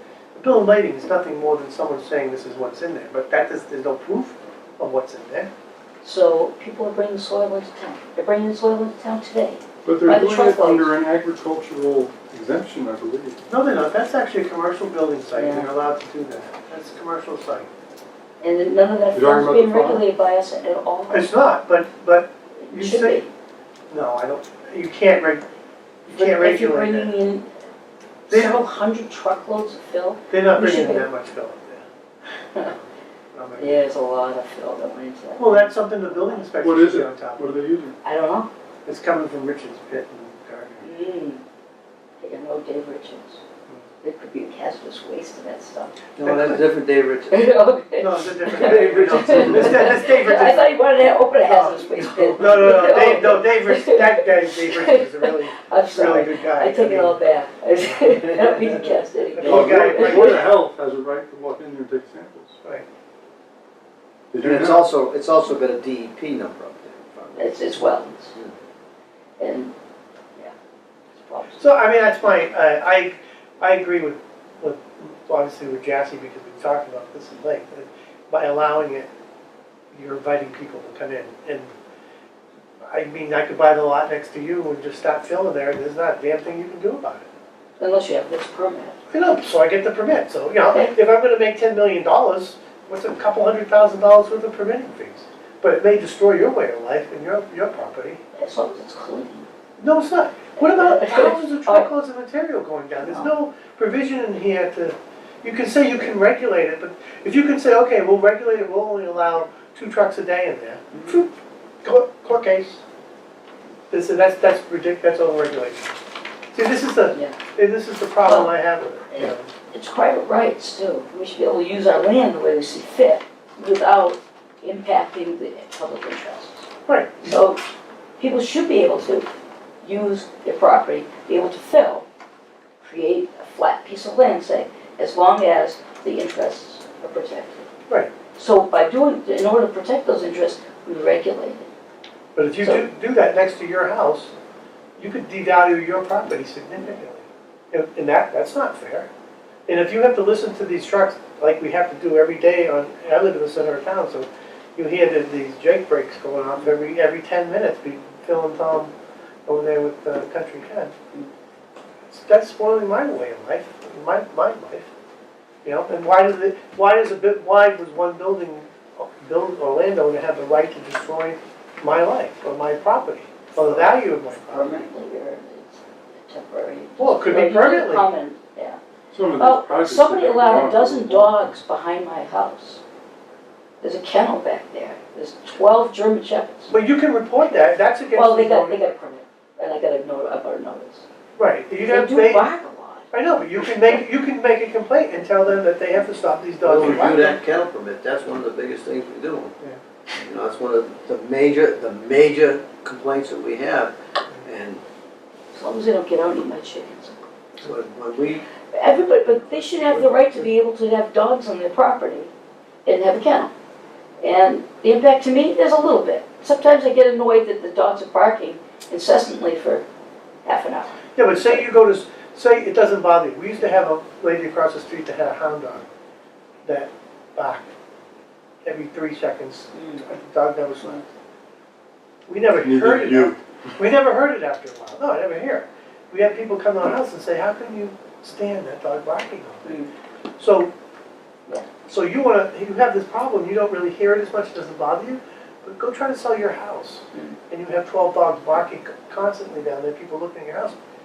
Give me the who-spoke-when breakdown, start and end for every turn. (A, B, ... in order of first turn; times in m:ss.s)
0:00.3-0:05.5 A
0:06.0-0:10.9 B
0:09.8-0:13.4 C
0:13.5-0:17.7 A
0:15.3-0:15.7 B
0:18.4-0:21.3 B
0:19.1-0:20.0 C
0:21.1-0:23.2 A
0:22.6-0:23.3 B
0:23.9-0:25.4 A
0:26.0-0:27.5 B
0:26.1-0:27.1 A
0:28.3-0:31.1 B
0:28.3-0:28.6 A
0:30.3-0:31.8 A
0:32.6-0:33.8 A
0:33.6-0:36.5 B
0:35.4-0:37.5 A
0:36.6-0:38.0 C
0:38.0-0:38.5 B
0:38.8-0:40.9 A
0:40.8-0:41.4 B
0:42.2-0:43.4 B
0:44.0-0:46.0 B
0:46.2-0:47.4 D
0:46.2-0:46.7 A
0:47.3-1:00.4 B
0:48.0-0:50.8 A
0:48.5-0:49.3 D
0:51.4-0:57.3 A
0:57.8-0:58.2 A
0:59.3-1:00.5 A
0:59.4-1:02.6 C
1:04.3-1:04.8 C
1:04.4-1:08.5 D
1:07.4-1:08.3 B
1:09.4-1:09.7 B
1:11.1-1:11.7 B
1:11.6-1:19.1 A
1:19.9-1:21.7 A
1:22.8-1:27.3 A
1:27.8-1:29.0 B
1:29.1-1:38.2 A
1:38.4-1:39.5 B
1:39.8-1:51.3 A
1:40.6-1:41.9 B
1:43.0-1:43.3 B
1:50.9-1:51.2 B
1:51.8-1:52.8 A
1:53.9-1:56.0 A
1:56.5-1:59.5 A
1:57.1-1:57.4 B
1:58.2-1:58.5 B
1:59.1-2:06.7 B
2:06.8-2:07.4 A
2:07.2-2:07.6 B
2:08.2-2:12.0 B
2:12.8-2:17.7 B
2:18.3-2:21.7 B
2:22.4-2:24.3 A
2:25.0-2:29.1 A
2:29.7-2:38.9 A
2:39.5-2:40.9 A
2:42.1-2:44.9 A
2:45.6-2:54.9 A
2:53.5-2:58.8 B
2:57.0-2:58.1 A
2:59.1-3:01.6 C
2:59.4-3:02.8 B
3:03.8-3:06.7 B
3:06.7-3:08.8 A
3:08.1-3:11.0 B
3:11.4-3:12.5 A
3:11.8-3:14.0 B
3:13.1-3:17.4 A
3:16.6-3:19.5 D
3:20.1-3:24.8 D
3:25.5-3:27.2 B
3:27.6-3:28.4 D
3:28.7-3:32.3 B
3:32.8-3:33.5 B
3:34.2-3:39.8 B
3:40.4-3:41.6 B
3:41.1-3:45.9 A
3:46.6-3:47.7 A
3:48.6-3:51.1 A
3:49.7-3:50.0 B
3:52.3-3:59.7 A
3:52.6-3:53.4 C
3:59.6-3:59.9 B
4:00.4-4:00.7 A
4:01.8-4:10.8 A